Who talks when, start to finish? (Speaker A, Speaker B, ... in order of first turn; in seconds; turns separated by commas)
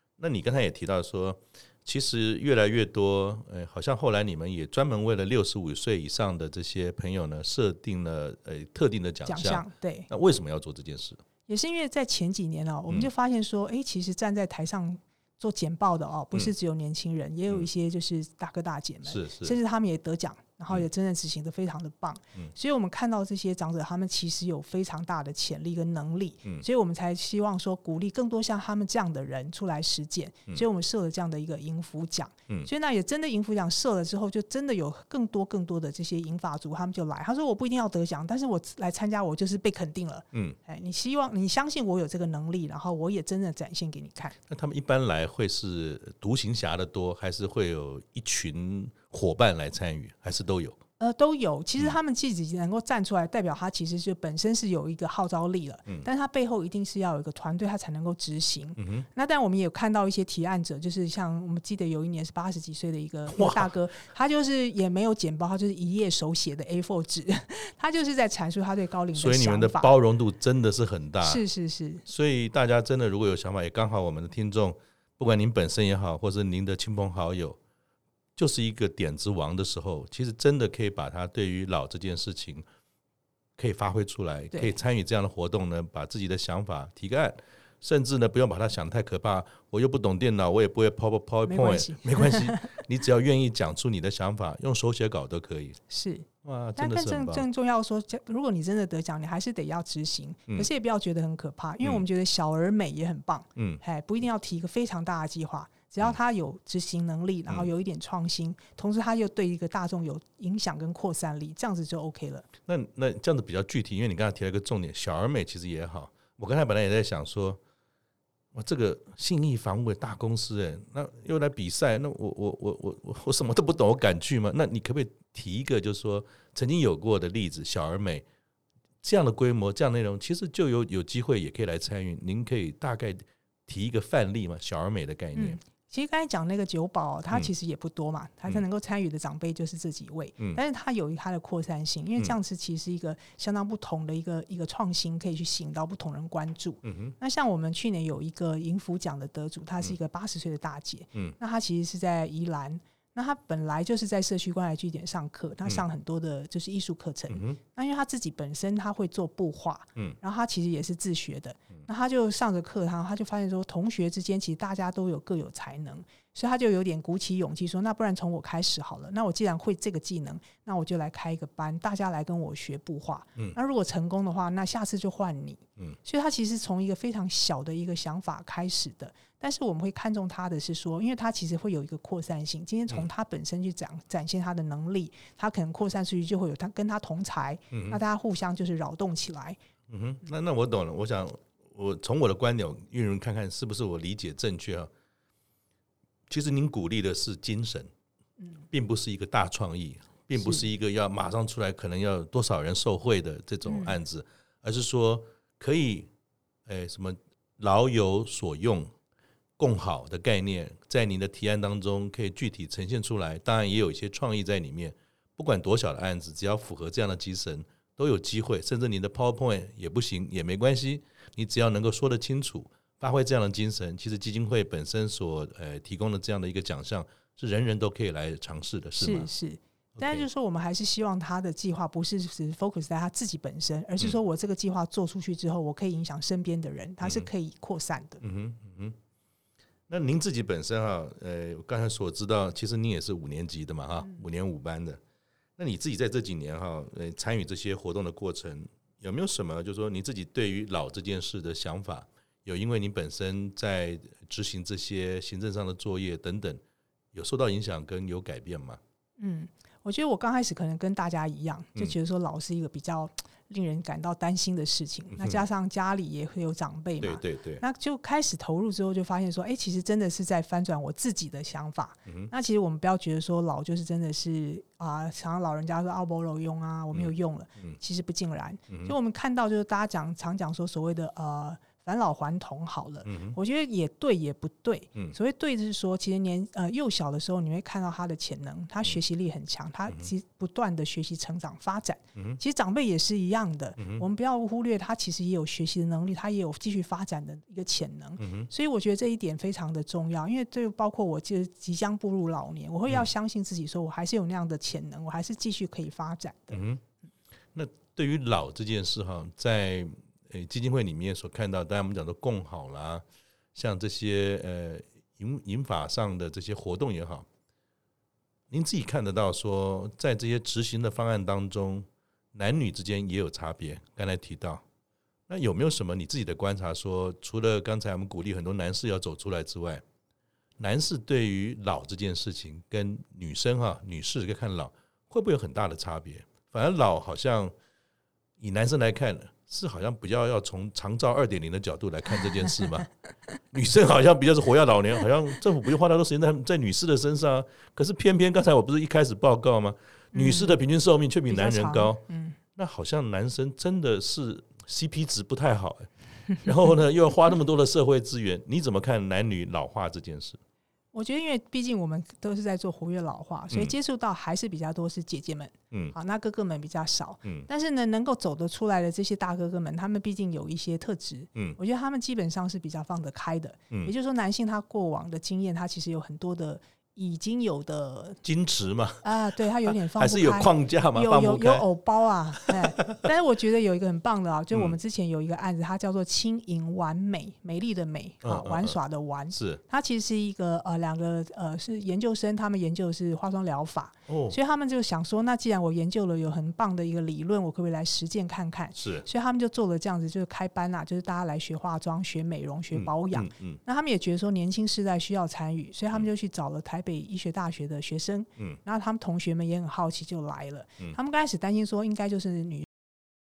Speaker A: 0.2-11.2, Speaker B: 9.3-10.1, Speaker B: 11.5-44.4, Speaker A: 19.1-19.6, Speaker A: 44.5-50.8, Speaker B: 51.0-69.9, Speaker A: 58.8-59.1, Speaker A: 63.3-63.7, Speaker A: 69.2-71.4, Speaker B: 71.2-72.0, Speaker A: 72.1-77.6, Speaker A: 78.4-82.7, Speaker A: 83.6-95.8, Speaker B: 91.5-92.8, Speaker B: 95.9-112.5, Speaker A: 96.4-97.5, Speaker A: 103.6-103.8, Speaker A: 112.7-117.6, Speaker A: 118.5-128.2, Speaker A: 129.0-135.6, Speaker B: 135.3-189.6, Speaker A: 146.8-147.1, Speaker A: 157.3-157.6, Speaker A: 187.7-188.0, Speaker A: 189.9-194.9, Speaker A: 196.3-197.9, Speaker A: 198.7-206.1, Speaker B: 203.7-204.0, Speaker A: 206.7-208.9, Speaker A: 209.6-229.3, Speaker B: 229.0-238.2, Speaker A: 230.0-230.3, Speaker A: 238.2-239.0, Speaker A: 239.9-245.0, Speaker A: 245.6-256.6, Speaker A: 257.1-258.8, Speaker B: 259.2-306.6, Speaker A: 267.0-267.6, Speaker A: 276.9-277.8, Speaker A: 283.1-283.4, Speaker A: 293.8-294.1, Speaker A: 298.2-298.5, Speaker A: 306.5-306.8, Speaker A: 307.5-313.0, Speaker A: 313.6-317.3, Speaker A: 318.5-324.6, Speaker A: 325.3-329.8, Speaker A: 330.6-337.5, Speaker A: 338.4-342.9, Speaker A: 343.5-360.4, Speaker B: 350.1-350.6, Speaker B: 351.3-352.4, Speaker B: 360.9-378.2, Speaker A: 378.2-379.1, Speaker B: 379.0-412.7, Speaker A: 379.9-381.7, Speaker A: 382.5-383.0, Speaker A: 384.5-384.8, Speaker A: 388.2-388.8, Speaker A: 389.4-389.6, Speaker A: 394.1-394.4, Speaker A: 398.8-399.1, Speaker A: 402.7-403.6